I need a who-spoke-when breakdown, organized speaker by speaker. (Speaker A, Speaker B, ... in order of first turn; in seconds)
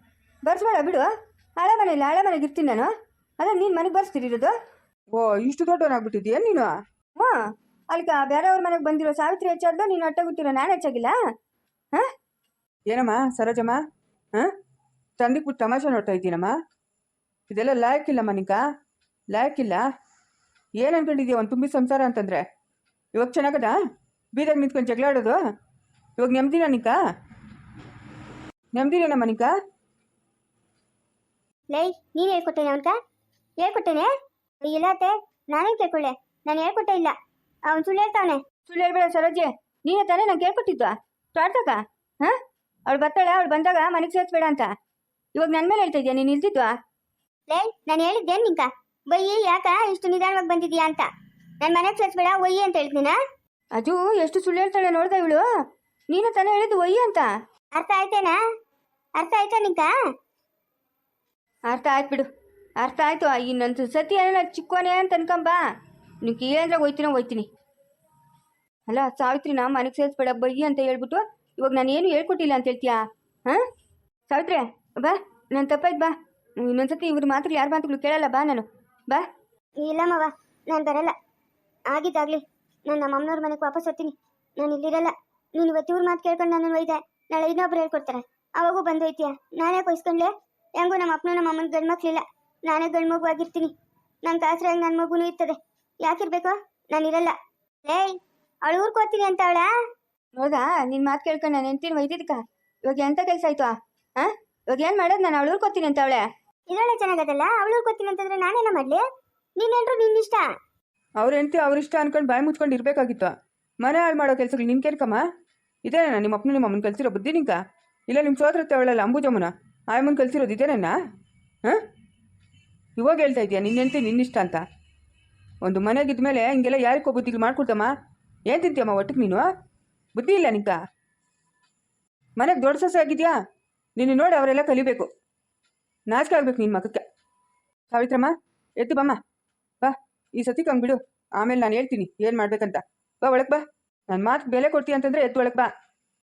Speaker A: 0.5-4.5, 7.9-11.1, 38.7-44.7, 45.3-46.7, 53.8-55.4, 56.1-57.3, 61.7-62.3, 62.8-65.6, 66.2-67.5, 68.9-73.6, 74.3-79.2, 100.3-106.2
Speaker B: 5.2-6.7, 12.9-13.8, 15.2-16.5, 17.5-18.6, 19.3-19.8, 20.8-22.4, 23.1-23.7, 24.4-25.4, 26.2-26.9, 28.8-29.5, 111.2-113.3, 113.8-115.2, 115.8-117.6, 118.1-120.9, 123.0-124.6, 125.6-127.9, 128.5-129.5, 130.2-130.8, 132.4-133.3, 134.0-135.1, 136.1-137.0, 137.9-139.2, 139.8-145.7
Speaker C: 31.7-32.9, 33.6-34.1, 34.6-37.1, 37.7-38.4, 47.5-51.1, 51.6-53.1, 57.8-58.4, 59.2-59.9, 79.8-81.1, 81.9-93.7, 94.2-99.7, 106.7-109.0, 109.6-110.4